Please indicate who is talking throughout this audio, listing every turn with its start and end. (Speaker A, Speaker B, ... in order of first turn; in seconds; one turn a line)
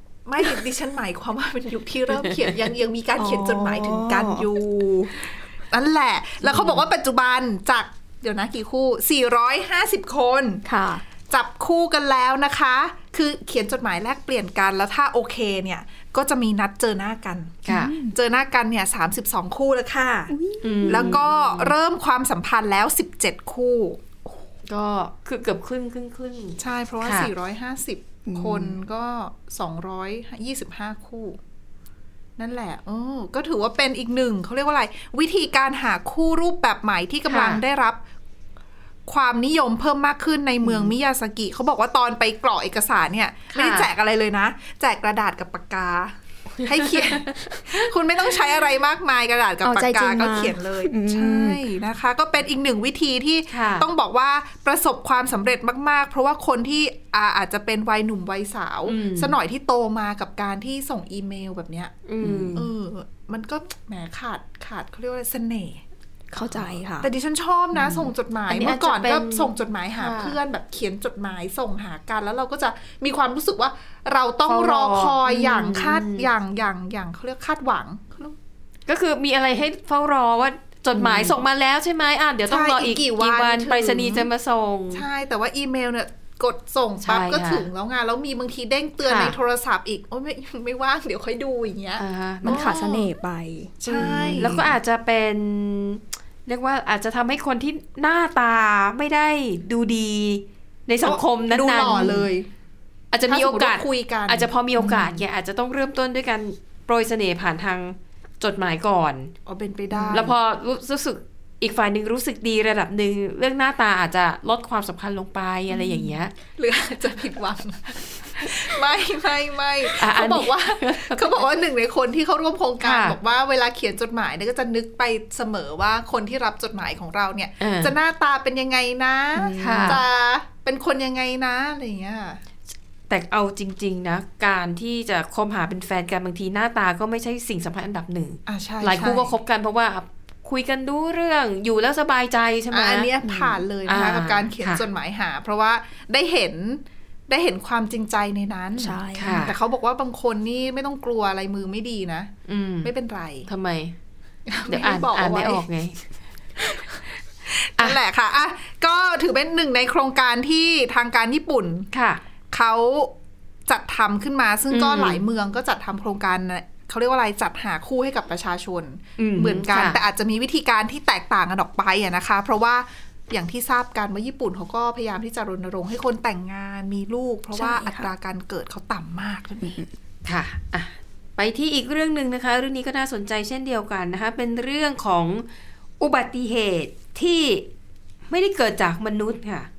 Speaker A: 0.3-10.7
Speaker B: 3.2-4.5
Speaker B: 10.7-11.0
Speaker A: 11.3-20.3
Speaker C: 17.6-17.9
Speaker B: 17.7-18.1
Speaker B: 20.3-21.2
Speaker C: 20.6-21.7
Speaker A: 20.9-24.2
Speaker C: 24.7-27.3
Speaker A: 26.6-31.4
Speaker B: 28.3-28.8
Speaker A: 32.4-38.0
Speaker C: 37.3-37.6
Speaker A: 39.1-62.0
Speaker B: 40.6-40.9
Speaker C: 43.5-43.9
Speaker B: 49.6-51.6
Speaker C: 53.5-53.9
Speaker C: 58.9-59.3
Speaker C: 62.1-62.7
Speaker B: 62.2-62.6
Speaker A: 62.5-65.8
Speaker B: 66.3-67.1
Speaker A: 66.5-78.4
Speaker C: 67.8-70.4
Speaker C: 74.5-76.3
Speaker C: 78.9-85.0
Speaker A: 82.5-84.3
Speaker A: 84.9-93.1
Speaker C: 87.0-87.7
Speaker C: 89.0-89.4
Speaker C: 92.0-92.7
Speaker B: 92.4-94.7
Speaker A: 93.8-94.6
Speaker C: 93.9-102.2
Speaker A: 101.0-102.5
Speaker C: 103.1-109.3
Speaker A: 103.3-105.1
Speaker A: 109.5-110.3
Speaker B: 109.9-110.3
Speaker C: 110.1-116.3
Speaker A: 115.7-132.4
Speaker C: 120.0-121.5
Speaker C: 122.8-123.2
Speaker C: 127.6-127.9
Speaker B: 129.3-130.0
Speaker C: 129.6-130.0
Speaker C: 133.1-143.1
Speaker A: 138.5-139.3
Speaker A: 142.7-152.3
Speaker B: 143.2-143.6
Speaker C: 143.9-144.8
Speaker B: 148.8-149.5
Speaker C: 149.2-149.5
Speaker C: 152.5-152.9
Speaker A: 152.8-153.5
Speaker C: 153.5-153.9
Speaker A: 154.5-155.6
Speaker C: 154.7-156.0
Speaker A: 157.5-161.9
Speaker C: 161.9-162.2
Speaker A: 162.5-163.1
Speaker A: 163.7-179.8
Speaker C: 164.7-165.2
Speaker C: 169.2-170.0
Speaker B: 177.5-178.1
Speaker B: 179.6-179.9
Speaker C: 180.2-185.5
Speaker C: 186.0-187.7
Speaker C: 188.3-189.7